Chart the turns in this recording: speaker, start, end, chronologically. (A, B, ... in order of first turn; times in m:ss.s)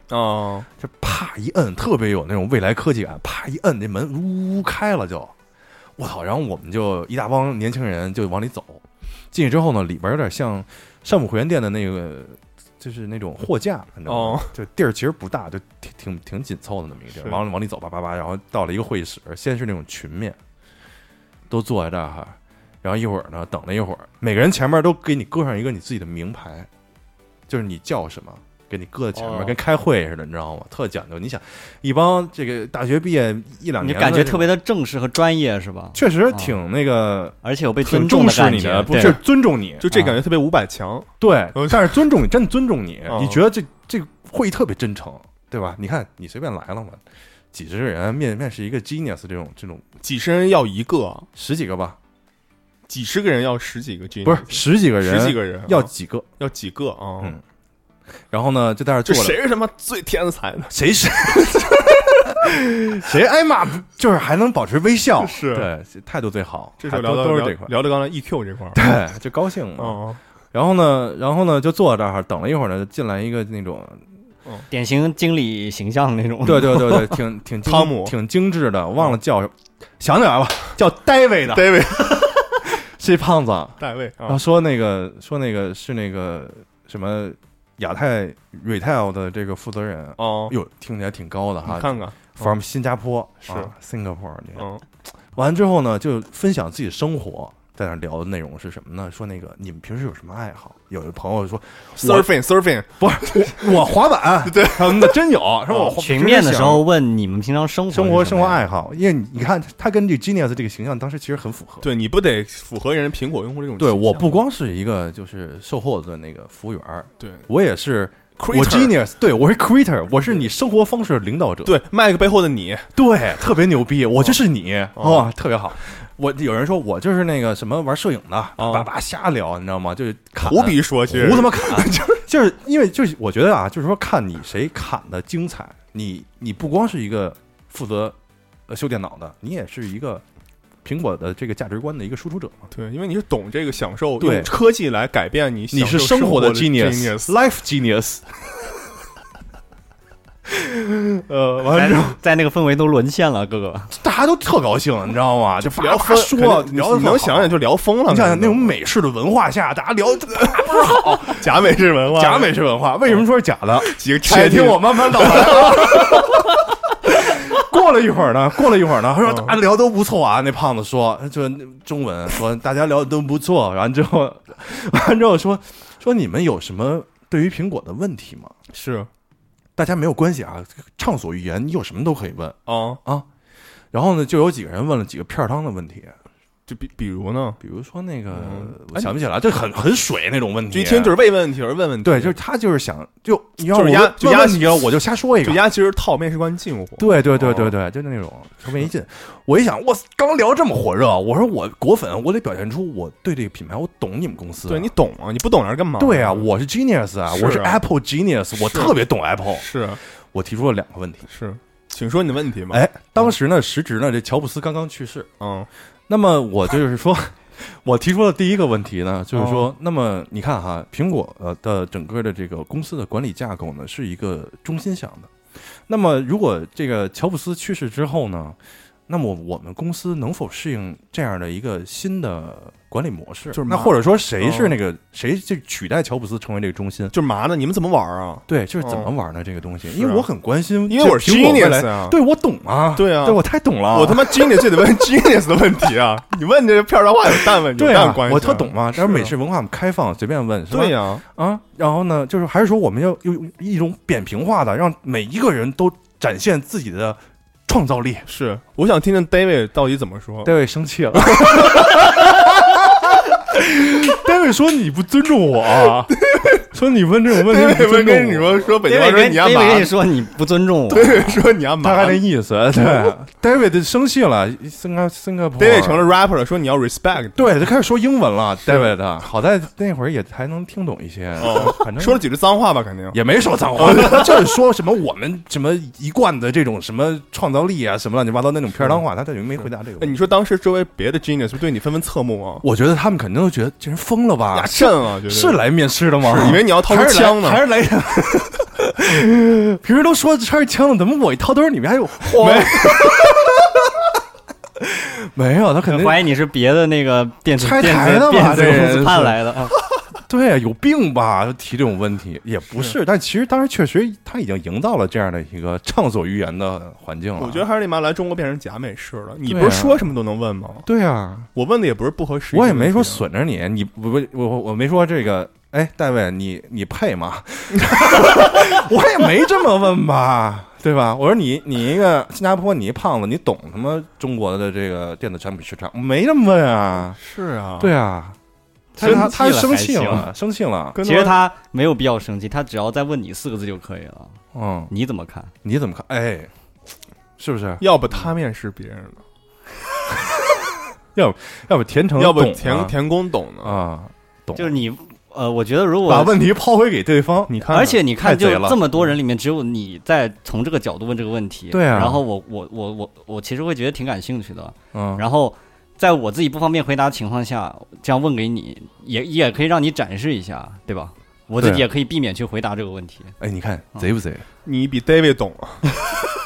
0:00.1-0:00.7 A
0:00.8-0:05.3 B
0:06.0-0:20.4 B
0:14.1-0:14.5 A
0:17.2-0:17.4 A
0:21.5-0:26.7 B
0:27.5-0:34.5 B
0:29.1-0:29.6 C
0:33.8-0:36.5 C
0:35.9-0:40.2 B
0:37.4-0:39.2 C
0:39.8-0:42.1 A
0:41.2-0:47.0 B
0:43.1-0:43.4 A
0:47.5-0:49.8 B
0:50.0-0:51.3 A
0:51.3-0:52.0 B
0:52.9-0:57.4 A
0:54.2-0:56.3 B
0:58.3-0:59.4 B
0:59.0-1:02.3 A
1:00.7-1:07.7 B
1:05.2-1:05.7 A
1:06.8-1:08.8 A
1:08.7-1:10.0 B
1:09.8-1:10.2 A
1:10.5-1:14.0 B
1:14.7-1:17.1 C
1:16.4-1:34.7 B
1:17.6-1:18.1 A
1:21.5-1:22.4 A
1:23.8-1:24.4 A
1:30.2-1:30.5 A
1:31.6-1:32.5 A
1:33.4-1:33.7 A
1:34.6-1:34.8 A
1:35.3-1:42.3 B
1:42.0-1:43.7 A
1:43.0-1:46.8 B
1:44.4-1:46.0 A
1:46.0-1:48.6 C
1:47.9-1:51.9 B
1:51.8-1:54.4 A
1:53.8-2:01.8 B
1:57.2-1:57.4 A
1:58.4-1:59.0 A
2:01.6-2:02.9 A
2:02.9-2:18.2 B
2:05.0-2:05.3 A
2:08.6-2:08.9 A
2:10.4-2:12.2 A
2:18.7-2:20.2 B
2:20.8-2:22.7 B
2:22.7-2:27.4 A
2:24.2-2:24.5 B
2:25.7-2:28.2 B
2:30.5-2:32.2 B
2:31.7-2:33.9 C
2:33.9-2:41.5 B
2:35.6-2:38.7 A
2:41.3-2:42.5 A
2:42.1-2:58.5 B
2:43.8-2:46.3 A
2:49.2-2:49.6 A
2:58.7-2:59.1 A
2:59.8-3:03.3 B
3:02.7-3:03.0 A
3:03.9-3:06.1 B
3:06.7-3:07.6 A
3:07.6-3:11.1 B
3:08.3-3:09.1 A
3:10.7-3:12.4 A
3:12.0-3:15.6 B
3:13.7-3:17.7 A
3:17.0-3:24.9 B
3:24.7-3:26.5 A
3:26.0-3:29.7 B
3:27.3-3:27.8 A
3:28.6-3:28.9 A
3:29.5-3:30.0 A
3:30.3-3:31.2 B
3:31.3-3:32.8 A
3:32.7-3:35.3 B
3:35.4-3:35.7 A
3:36.1-3:57.1 B
3:39.3-3:39.7 A
3:53.5-3:54.8 A
3:57.1-3:59.1 A
3:58.5-4:04.6 B
3:59.8-4:00.3 A
4:00.9-4:02.2 A
4:02.9-4:09.3 A
4:07.7-4:18.2 B
4:10.7-4:11.2 A
4:18.3-4:20.5 A
4:20.4-4:28.6 B
4:21.1-4:22.2 A
4:26.1-4:26.6 A
4:27.3-4:30.0 A
4:28.8-4:31.4 C
4:30.9-4:32.2 A
4:31.8-4:36.1 B
4:35.6-4:37.5 A
4:37.3-4:42.2 B
4:38.6-4:38.9 A
4:41.4-4:43.2 A
4:43.1-4:50.2 B
4:43.8-4:44.5 A
4:49.6-4:52.6 A
4:52.6-5:04.1 B
4:54.5-4:55.6 A
4:56.2-4:57.6 A
5:02.2-5:03.4 A
5:04.8-5:06.3 B
5:05.9-5:09.7 C
5:07.6-5:09.4 B
5:10.3-5:17.6 B
5:12.7-5:13.0 A
5:17.4-5:20.9 A
5:19.5-5:20.1 B
5:20.8-5:21.5 B
5:21.5-5:23.2 A
5:22.5-5:37.2 B
5:37.2-5:37.9 A
5:37.8-5:38.4 B
5:38.9-5:40.3 C
5:39.0-5:41.0 B
5:39.0-5:39.3 A
5:40.9-5:41.4 A
5:41.0-5:44.4 C
5:44.5-5:44.9 B
5:44.9-5:45.5 C
5:45.6-5:46.5 B
5:47.4-5:47.8 B
5:47.8-5:49.2 A
5:51.1-5:52.9 B
5:52.2-5:53.8 A
5:53.6-5:54.7 B
5:54.6-5:56.4 C
5:56.0-5:58.8 B
5:57.5-5:58.0 A
5:57.7-6:13.3 C
6:01.7-6:02.2 B
6:04.9-6:05.2 B
6:11.6-6:11.9 B
6:13.4-6:14.4 B
6:14.6-6:15.9 A